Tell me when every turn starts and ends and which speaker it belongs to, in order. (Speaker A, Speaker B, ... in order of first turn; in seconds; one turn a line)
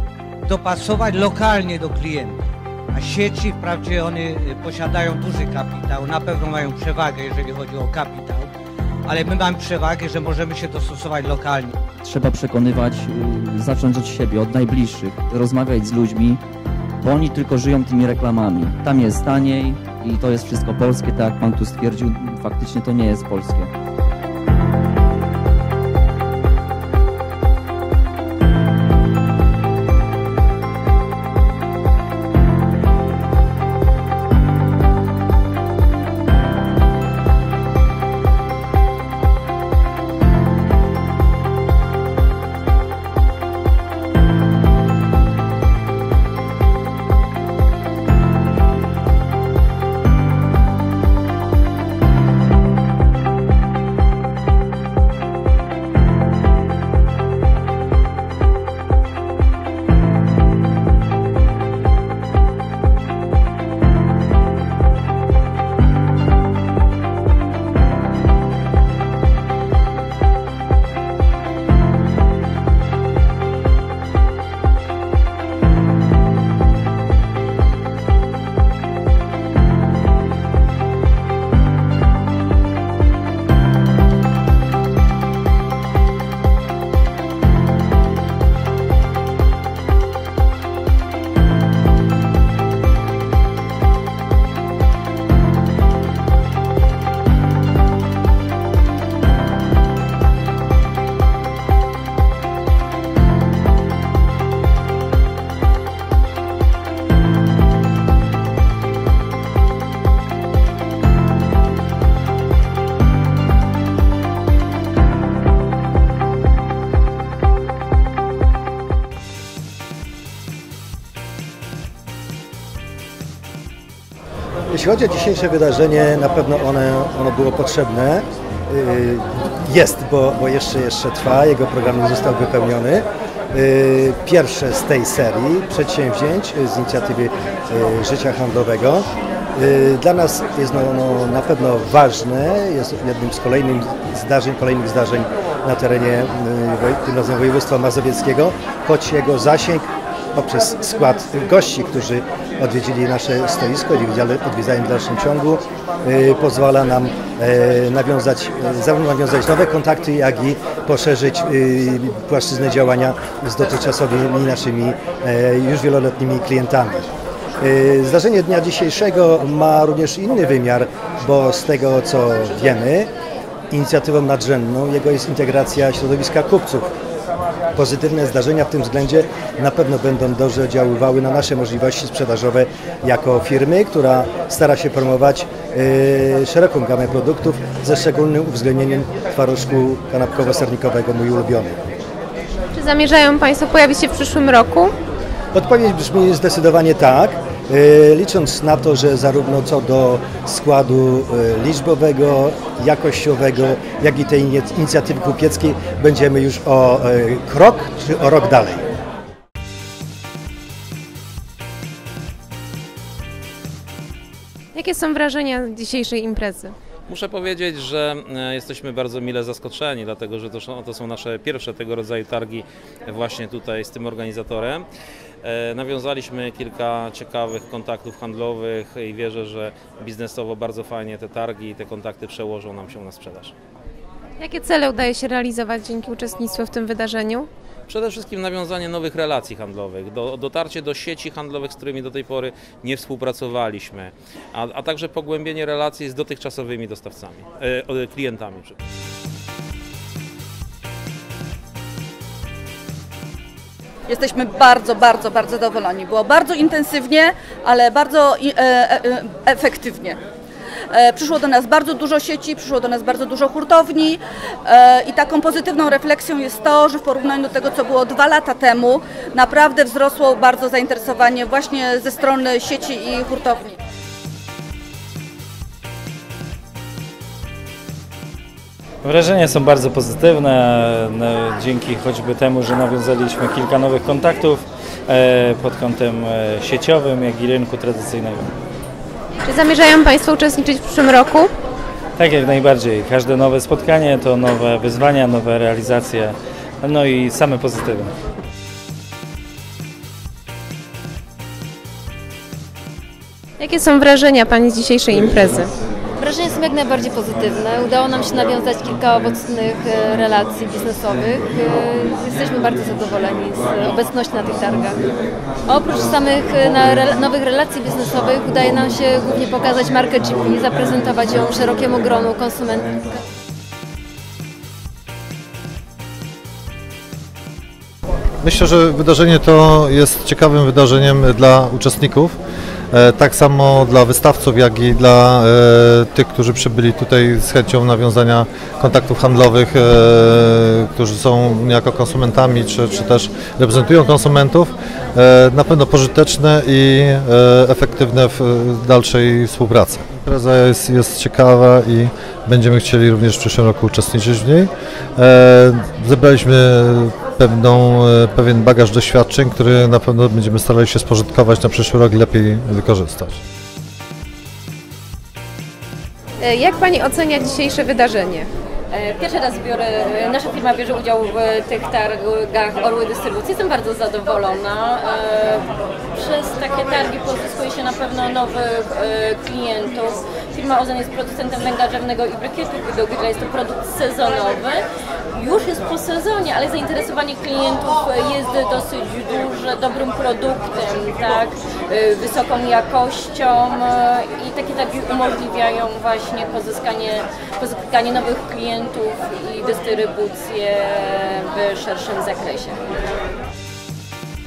Speaker A: 0.5-2.4
Speaker A: 2.9-8.5
Speaker A: 9.0-11.7
Speaker B: 12.1-16.4
Speaker B: 17.0-23.7
Speaker C: 124.7-167.0
Speaker C: 167.6-173.1
Speaker C: 173.7-176.9
Speaker C: 177.7-191.8
Speaker D: 192.7-194.9
Speaker C: 195.5-208.8
Speaker D: 214.7-216.7
Speaker E: 217.1-224.8
Speaker E: 225.4-233.5
Speaker D: 234.4-237.5
Speaker E: 237.9-248.8
Speaker F: 254.1-260.2
Speaker F: 260.9-273.8
Speaker G: 279.0-288.5
Speaker D: 289.4-291.5
Speaker G: 292.2-298.1
Speaker D: 303.6-305.7
Speaker H: 306.2-315.1
Speaker H: 315.6-323.0
Speaker I: 328.4-332.4
Speaker I: 332.9-363.4
Speaker D: 366.4-368.5
Speaker J: 368.9-384.8
Speaker J: 385.3-402.9